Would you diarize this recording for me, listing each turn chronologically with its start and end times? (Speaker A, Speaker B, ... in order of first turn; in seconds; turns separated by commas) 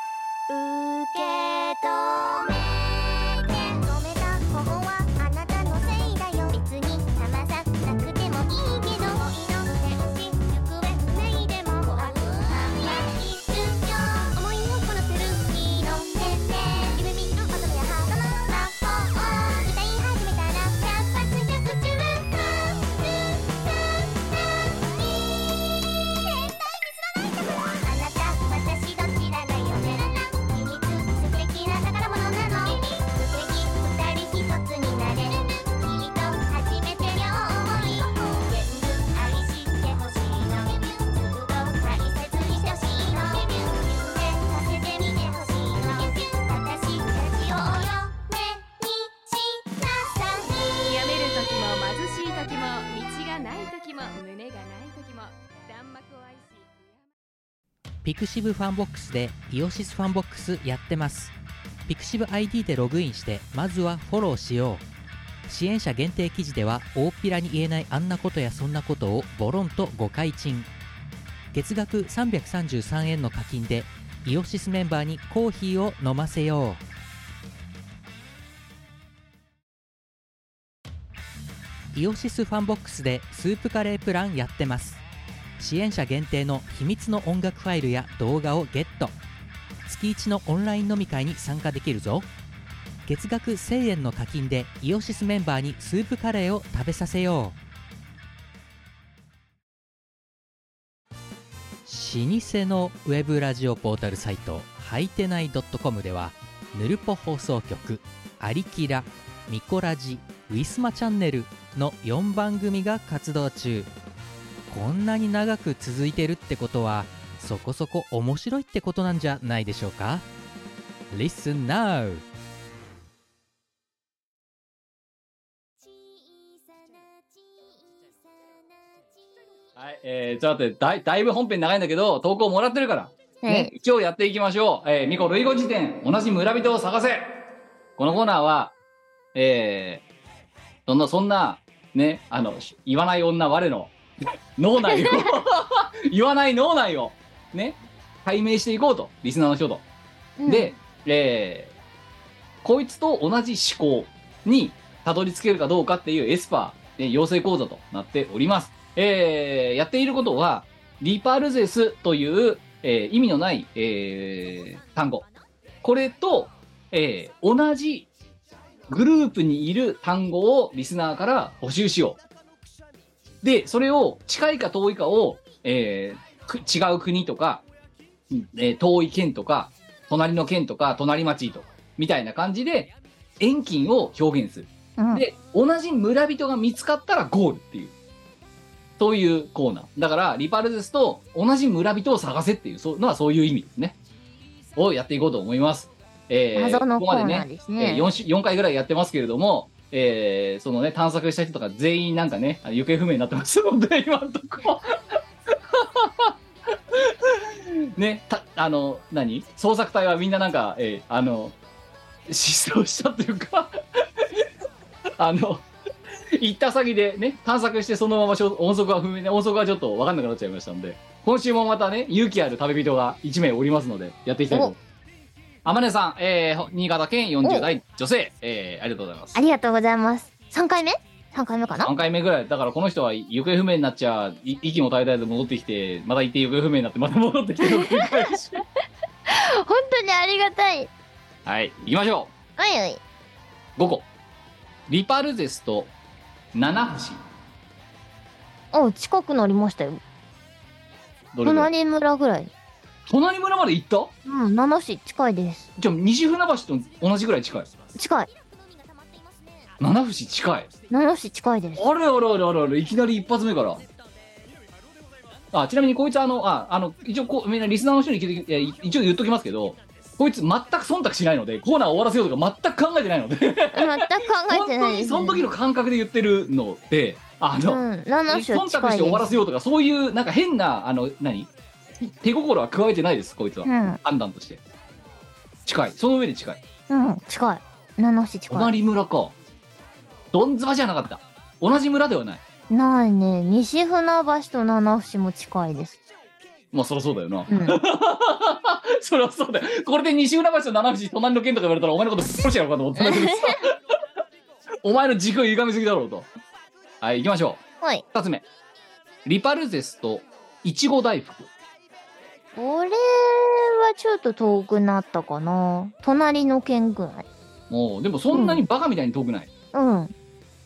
Speaker A: 0.5-50.8, Speaker B: 50.9-57.0, Speaker C: 58.0-61.3, Speaker C: 61.9-64.8, Speaker C: 65.5-70.7, Speaker C: 71.5-76.8, Speaker C: 81.9-85.0, Speaker C: 85.6-89.1, Speaker C: 89.9-92.3, Speaker C: 93.1-97.6, Speaker C: 101.9-113.9, Speaker C: 114.7-120.2, Speaker C: 121.1-122.2, Speaker D: 129.8-137.4, Speaker E: 133.4-133.7, Speaker D: 138.0-138.7, Speaker D: 139.3-140.0, Speaker D: 140.9-144.0, Speaker D: 144.6-149.8, Speaker E: 150.4-150.8, Speaker D: 150.5-151.7, Speaker D: 152.6-165.2, Speaker D: 165.8-168.1, Speaker D: 168.9-172.2, Speaker D: 173.4-177.6, Speaker D: 178.3-187.9, Speaker E: 185.0-185.2, Speaker D: 189.0-194.0, Speaker D: 194.8-206.3, Speaker E: 196.5-198.1, Speaker D: 206.9-211.6, Speaker D: 212.3-214.5, Speaker D: 215.2-215.7, Speaker D: 216.4-224.8, Speaker D: 225.7-229.4, Speaker E: 229.3-231.9, Speaker D: 231.8-238.6, Speaker E: 237.6-238.6, Speaker E: 239.3-240.9, Speaker D: 241.4-242.3, Speaker E: 242.6-243.0, Speaker D: 243.8-244.1, Speaker D: 244.9-245.9, Speaker D: 246.5-247.2, Speaker E: 248.7-250.0, Speaker D: 251.3-251.7, Speaker E: 251.4-252.5, Speaker D: 253.1-254.1, Speaker E: 254.2-255.7, Speaker D: 255.8-257.7, Speaker E: 257.9-258.3, Speaker D: 259.8-260.7, Speaker E: 260.9-261.9, Speaker D: 261.8-263.8, Speaker D: 265.5-281.5, Speaker E: 273.7-275.4, Speaker E: 277.7-279.3, Speaker D: 282.0-284.6, Speaker E: 283.6-284.0, Speaker D: 285.7-286.6, Speaker E: 286.9-288.7, Speaker D: 288.5-289.4, Speaker D: 290.3-292.4, Speaker E: 292.7-296.0, Speaker D: 296.7-303.8, Speaker E: 297.5-297.8, Speaker E: 303.0-303.6, Speaker D: 304.8-306.3, Speaker D: 307.0-307.6, Speaker D: 308.1-308.4, Speaker D: 309.2-311.5, Speaker E: 312.6-317.3, Speaker D: 317.7-319.5, Speaker E: 318.3-318.6, Speaker E: 319.7-320.1